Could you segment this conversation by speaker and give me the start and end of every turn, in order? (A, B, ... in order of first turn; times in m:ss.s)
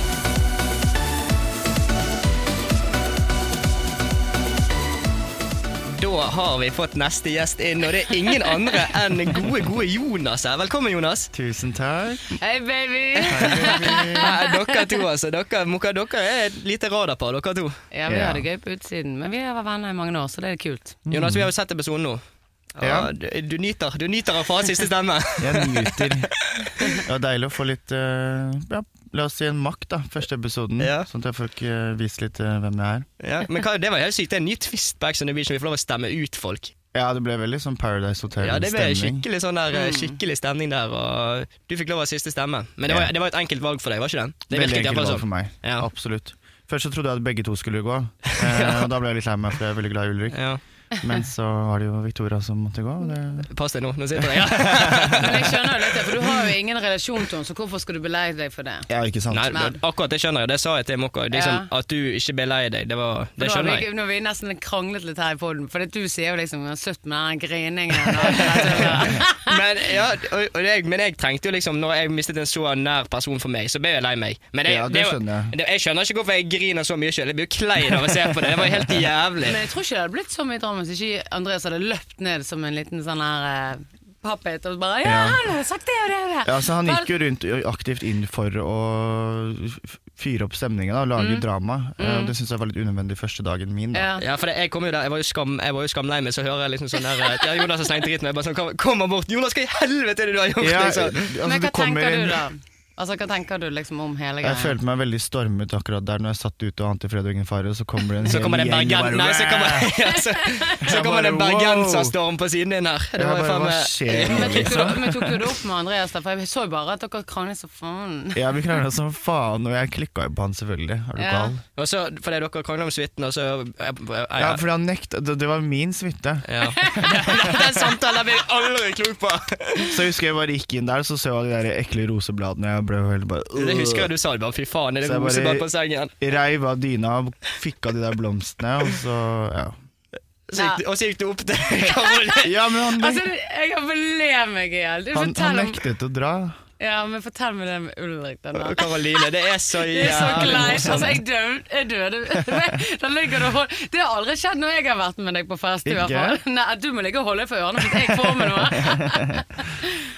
0:05.9-0:11.3 A
0:11.3-0:12.4 B
0:12.4-0:14.8 C
0:13.2-0:17.8 A
0:13.3-0:14.3 B
0:17.9-0:21.0 C
0:18.1-0:18.4 B
0:21.1-0:21.5 B
0:21.1-0:22.2 A
0:22.8-0:27.0 A
0:22.8-0:23.1 B
0:25.4-0:26.3 B
0:27.0-0:33.0 B
0:30.8-0:31.1 A
0:33.2-0:36.7 A
0:36.9-0:39.2 B
0:38.4-0:45.9 A
0:39.7-0:40.2 C
0:44.5-0:50.4 B
0:48.3-0:48.9 A
0:50.3-0:50.6 A
0:51.0-0:53.5 B
0:53.5-0:56.4 A
0:54.2-0:55.3 B
0:55.2-0:58.9 C
0:58.9-0:59.6 B
0:59.3-1:03.8 A
0:59.5-0:59.8 C
1:01.3-1:01.7 C
1:03.4-1:09.5 C
1:08.3-1:19.6 A
1:14.6-1:15.5 B
1:19.4-1:27.1 C
1:25.0-1:25.4 B
1:26.4-1:34.1 B
1:31.2-1:31.4 C
1:32.0-1:32.3 C
1:33.9-1:34.2 C
1:34.2-1:41.3 A
1:40.6-1:42.4 B
1:41.4-1:44.8 C
1:44.4-1:49.9 B
1:48.2-1:55.0 A
1:50.3-1:50.8 C
1:50.8-1:52.2 B
1:53.1-1:55.4 B
1:54.2-1:58.4 C
1:58.3-2:01.6 B
2:01.2-2:01.5 C
2:01.8-2:04.6 A
2:04.4-2:07.7 B
2:06.5-2:10.0 A
2:06.7-2:07.5 C
2:09.8-2:14.1 B
2:13.5-2:16.1 A
2:15.0-2:15.7 B
2:16.2-2:19.7 B
2:20.5-2:22.5 A
2:20.5-2:20.8 C
2:22.4-2:23.2 B
2:22.9-2:25.8 C
2:25.1-2:26.6 B
2:26.8-2:29.3 C
2:28.5-2:31.2 A
2:29.8-2:39.9 C
2:30.1-2:31.2 B
2:35.8-2:36.4 B
2:37.8-2:39.4 B